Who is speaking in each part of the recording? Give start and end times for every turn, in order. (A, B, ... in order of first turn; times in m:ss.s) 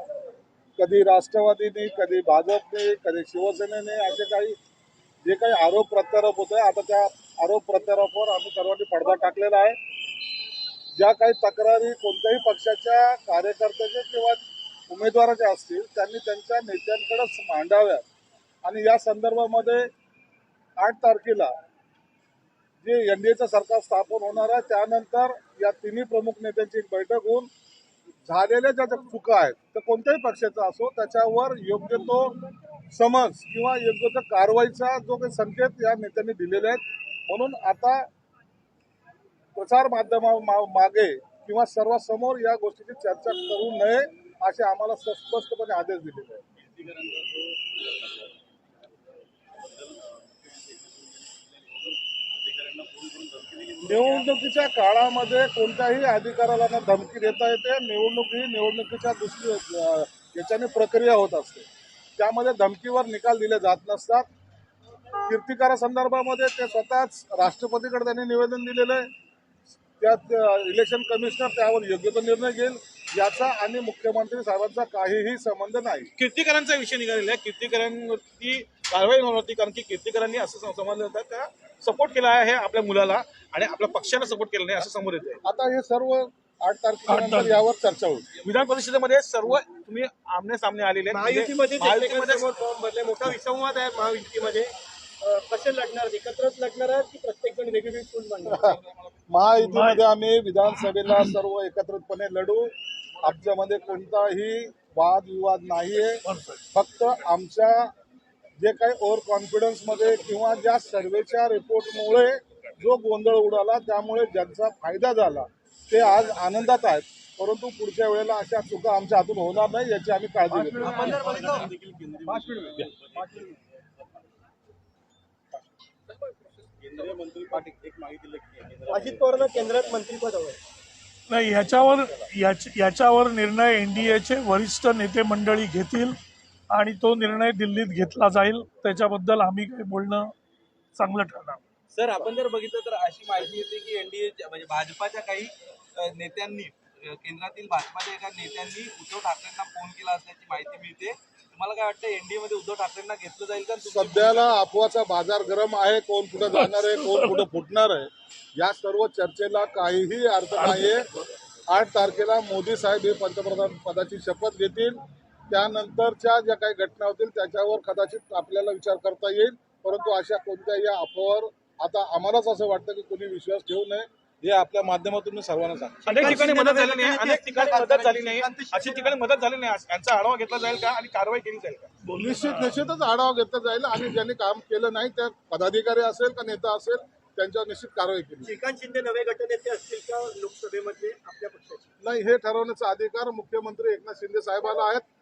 0:00.8-0:04.6 A
0:05.2-0:09.8 A
0:11.0-0:18.0 A
0:18.6-0:19.9 A
0:20.8-0:21.5 A
0:22.8-0:27.5 A
0:28.2-0:32.4 A
0:32.9-0:38.0 A
0:39.5-0:46.4 A
0:46.6-0:48.3 B
0:49.6-0:54.4 B
0:53.8-1:04.2 A
1:05.2-1:09.1 A
1:10.0-1:16.1 A
1:16.2-1:25.4 C
1:25.4-1:28.3 A
1:27.1-1:27.6 D
1:28.4-1:32.4 C
1:31.1-1:34.7 E
1:35.2-1:38.8 E
1:38.5-1:46.2 A
1:39.6-1:40.0 D
1:46.2-1:46.6 D
1:46.7-1:47.9 A
1:48.6-2:01.2 A
2:00.8-2:03.9 B
2:06.8-2:09.9 B
2:08.9-2:10.6 E
2:11.3-2:16.2 D
2:16.7-2:20.3 D
2:21.0-2:21.6 D
2:21.9-2:34.5 B
2:33.8-2:41.1 A
2:36.5-2:37.4 D
2:40.6-2:40.9 D
2:41.7-2:56.4 A
2:56.0-3:01.9 C
2:56.1-2:59.1 E
3:02.0-3:02.8 D
3:02.2-3:08.5 A
3:08.4-3:11.8 E
3:12.0-3:15.0 A